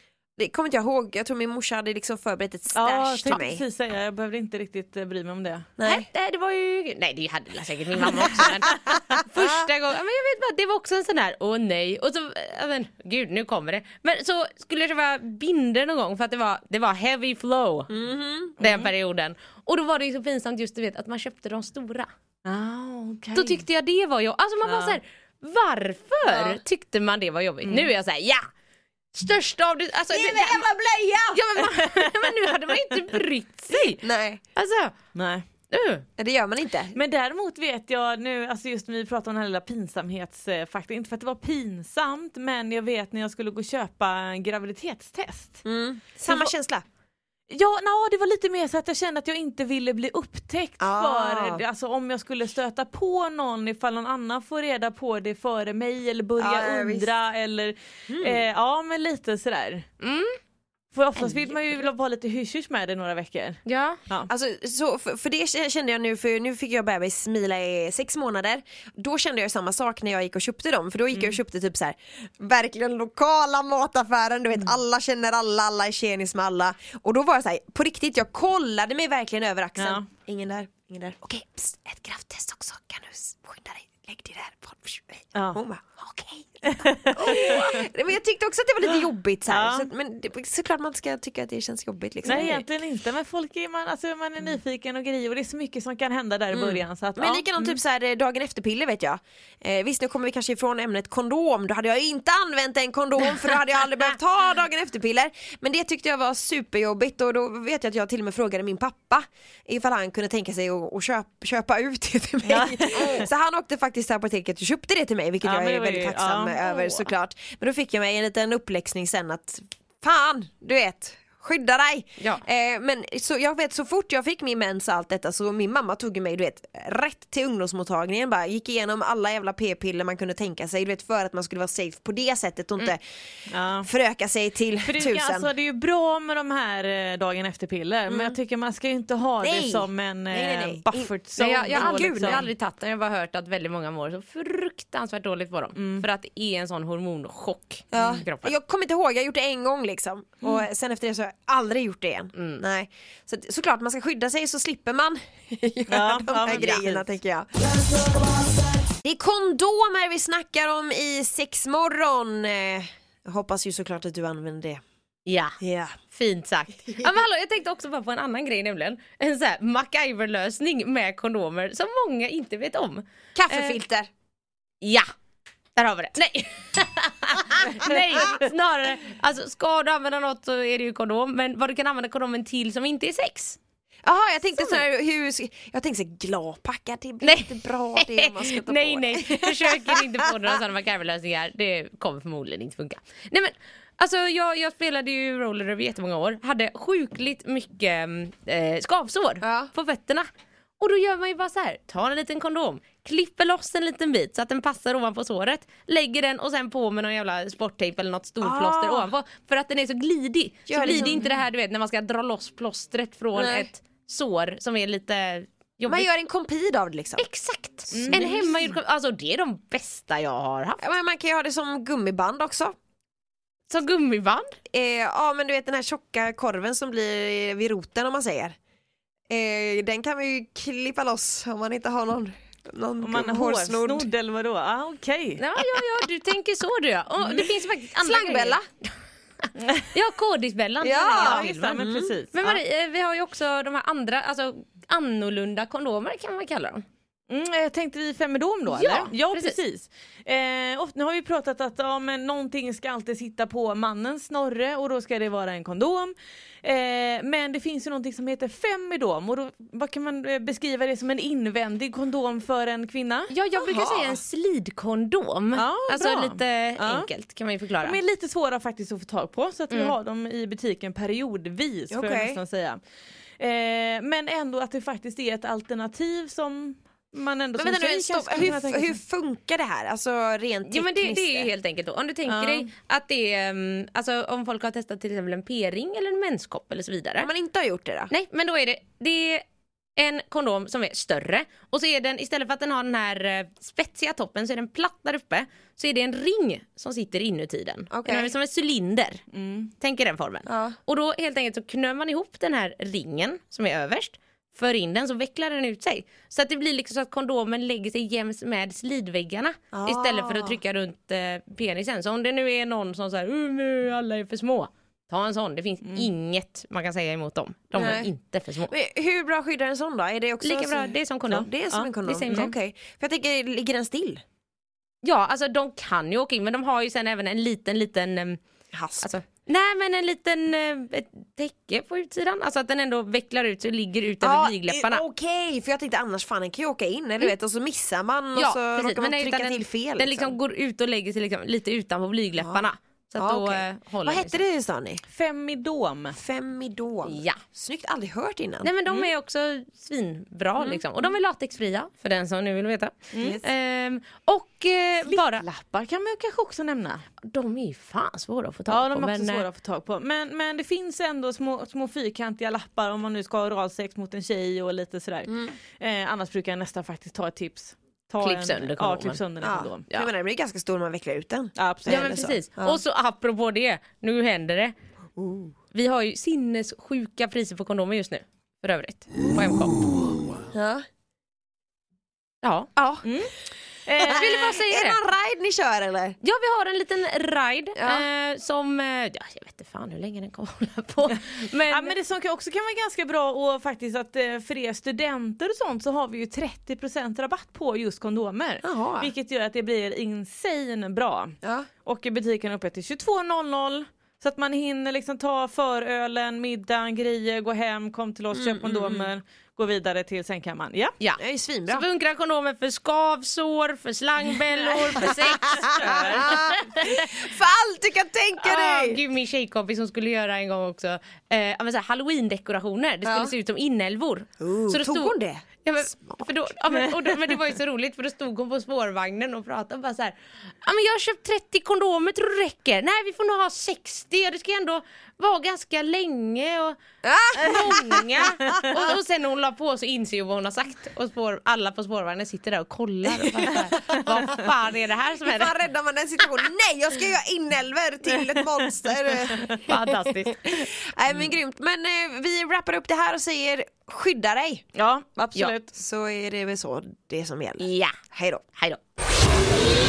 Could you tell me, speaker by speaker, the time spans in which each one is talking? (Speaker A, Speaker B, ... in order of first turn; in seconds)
Speaker A: 0.4-3.6, 5.8-6.1, 17.9-18.6, 26.2-26.6, 30.1-31.7, 34.0-34.4, 36.2-37.0, 45.6-46.8, 50.8-51.6, 56.4-57.1, 58.1-58.4, 64.3-92.6, 96.5-133.0, 133.8-135.5, 138.1-138.3, 139.4-141.1, 141.7-142.5, 147.9-157.5, 159.0-164.8, 165.6-165.9, 166.9-167.1, 173.3-174.1, 184.0-190.3, 199.4-199.7, 208.4-209.1, 210.7-211.2, 213.3-213.7, 215.9-217.3, 217.9-218.8, 220.8-222.7, 224.7-228.5, 229.3-234.1, 238.0-238.6, 240.8-242.1, 263.6-264.2, 271.9-272.4, 277.6-281.5, 287.2-288.1, 297.9-298.3, 300.4-300.8, 309.7-310.6, 317.7-318.1, 318.7-324.2, 328.7-329.1, 334.2-340.4, 342.4-342.6, 343.2-345.0, 346.1-348.7, 350.6-350.8, 353.2-353.5, 365.3-365.5, 369.4-372.8, 375.2-375.5, 380.5-380.8, 382.8-383.0, 384.0-386.1, 387.8-388.1, 398.6-399.1, 408.3-409.1, 411.2-411.9, 415.5-419.0, 423.0-423.3, 424.4-426.5, 437.0-438.8, 443.1-444.1, 445.2-449.7, 450.4-454.6, 455.7-458.4
Speaker B: 2.7-5.7, 18.6-18.9, 22.4-23.6, 24.6-25.0, 27.6-27.9, 35.1-35.4, 36.9-45.6, 46.3-46.5, 47.5-59.9, 60.9-64.3, 71.1-71.4, 79.8-80.0, 85.3-85.6, 86.7-87.9, 88.9-89.9, 92.2-97.8, 112.4-113.3, 115.4-116.8, 133.5-133.9, 134.8-142.5, 145.7-146.1, 155.9-157.1, 210.8-211.2, 217.9-218.3, 233.0-235.4, 241.1-242.6, 247.3-263.3, 265.6-267.1, 267.8-272.8, 273.4-279.0, 282.2-282.7, 299.3-299.7, 315.8-316.1, 321.3-322.5, 345.1-346.2, 348.9-349.1, 353.1-353.4, 355.0-357.0, 358.7-369.8, 371.6-372.3, 383.0-383.3, 383.9-384.6, 391.1-410.9, 415.7-416.2, 449.3-449.6, 454.7-455.7
Speaker C: 5.8-17.9, 18.6-22.1, 23.3-28.4, 29.1-30.6, 31.3-34.0, 34.5-34.9, 35.7-36.0, 60.0-60.4, 61.2-61.5, 63.6-64.0, 141.4-148.5, 152.3-152.6, 165.2-165.6, 166.1-173.8, 175.8-183.6, 187.2-200.3, 200.8-216.1, 217.2-220.9, 223.7-224.6, 235.4-238.6, 239.9-246.8, 248.7-249.6, 263.3-268.0, 269.7-269.9, 280.7-287.3, 288.1-289.4, 290.0-299.2, 299.8-318.7, 320.4-321.5, 322.0-322.5, 325.0-328.4, 329.0-335.0, 338.3-344.4, 347.0-347.4, 348.6-355.4, 357.2-359.4, 368.2-369.2, 371.9-374.7, 375.7-379.9, 382.4-382.7, 384.0-385.0, 386.2-391.9, 411.0-417.1, 418.4-436.8, 437.3-445.5, 449.6-450.6, 457.6-457.9, 458.5-458.8